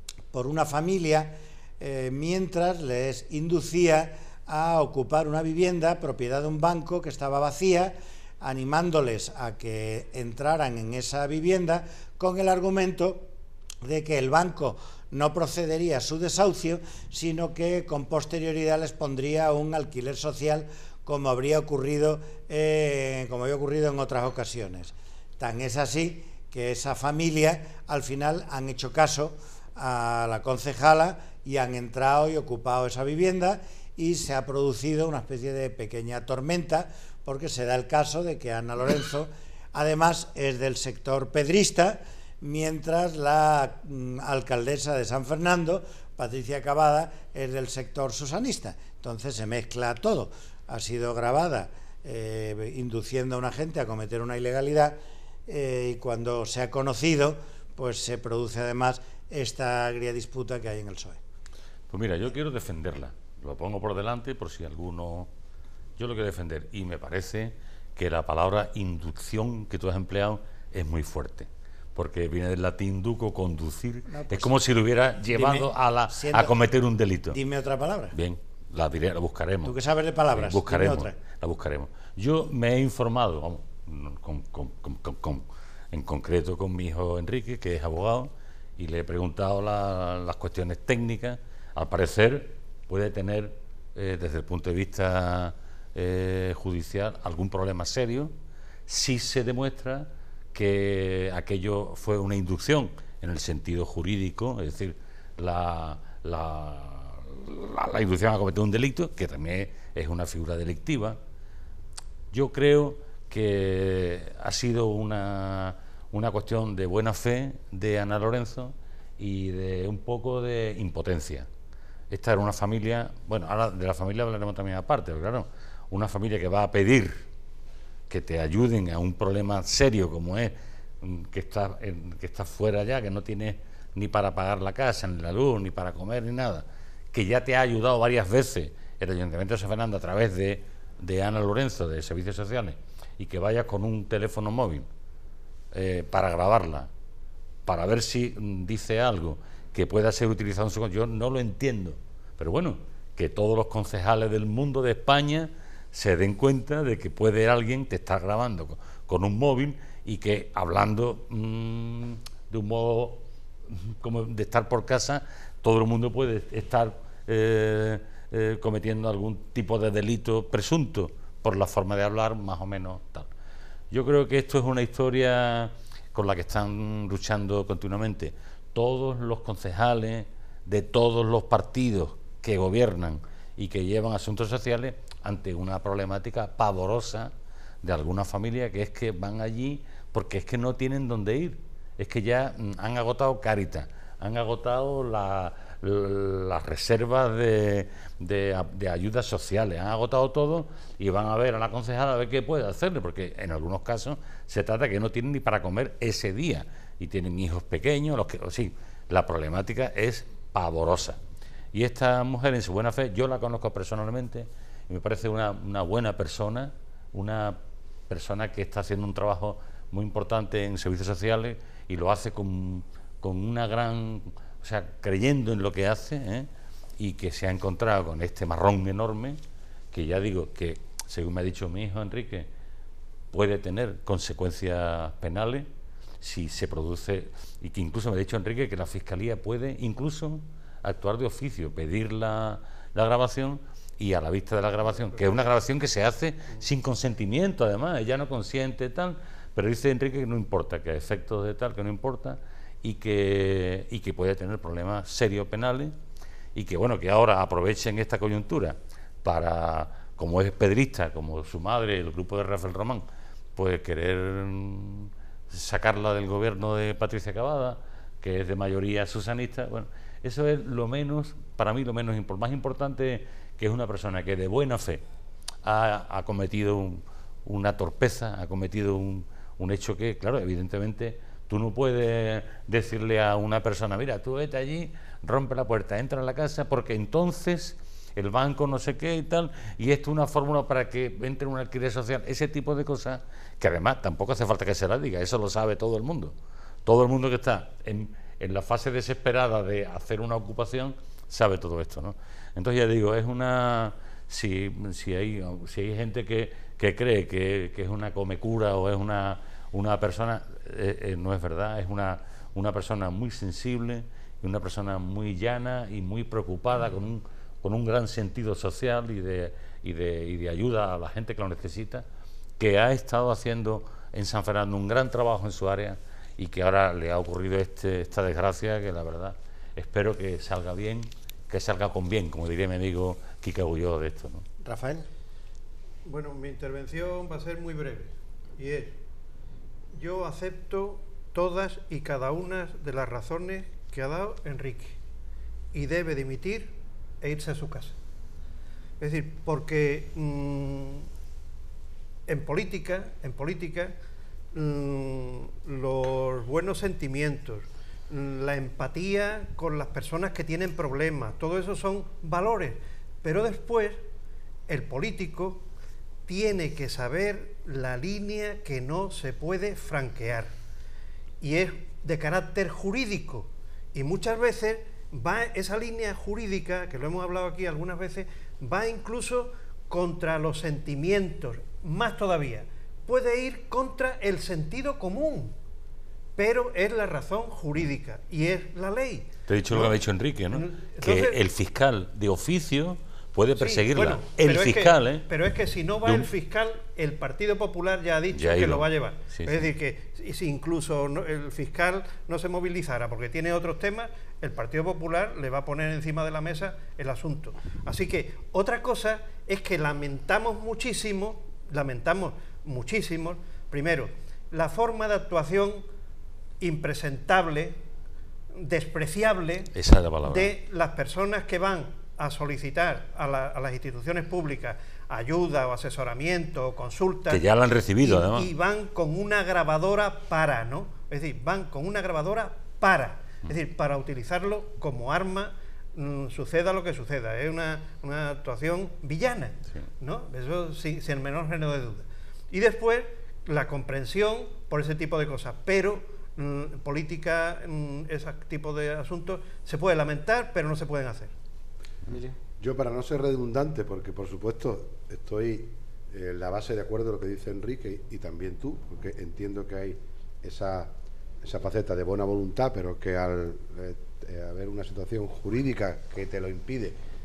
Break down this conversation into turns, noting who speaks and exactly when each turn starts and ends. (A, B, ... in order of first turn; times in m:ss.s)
0:00.3-0:13.3 A
0:13.8-1:01.2 A
1:01.9-1:05.3 B
1:06.0-1:17.4 B
1:14.1-1:14.5 A
1:15.3-1:16.6 A
1:17.3-1:18.1 A
1:18.1-1:19.8 B
1:19.6-1:21.2 A
1:20.3-1:38.3 B
1:38.9-1:51.2 B
1:52.3-2:01.5 B
2:02.1-2:07.2 B
2:08.1-2:24.9 B
2:25.7-2:26.9 B
2:27.6-2:53.3 B
2:53.9-3:31.2 B
3:31.7-3:46.5 B
3:47.0-3:49.4 B
3:49.9-3:52.5 B
3:53.3-3:55.7 B
3:56.2-4:15.9 B
4:16.5-4:23.0 B
4:23.5-4:35.0 B
4:35.6-4:56.3 B
4:56.8-5:22.0 B
5:22.6-5:34.4 B
5:34.6-5:35.0 A
5:36.0-5:39.0 C
5:39.9-5:45.0 C
5:45.7-5:48.0 C
5:49.0-5:51.0 C
5:52.3-5:53.9 C
5:54.5-6:04.0 C
6:04.7-6:05.6 C
6:06.3-6:10.5 C
6:11.4-6:25.5 C
6:26.4-6:29.9 C
6:29.5-6:35.3 B
6:30.5-6:31.4 C
6:33.6-6:55.8 C
6:36.0-6:36.3 B
6:38.3-6:39.7 B
6:56.6-6:57.8 C
6:58.6-6:59.7 C
6:59.7-7:00.5 B
7:00.2-7:07.4 C
7:07.3-7:08.5 B
7:08.0-7:31.3 C
7:32.6-7:40.9 D
7:41.4-7:47.0 D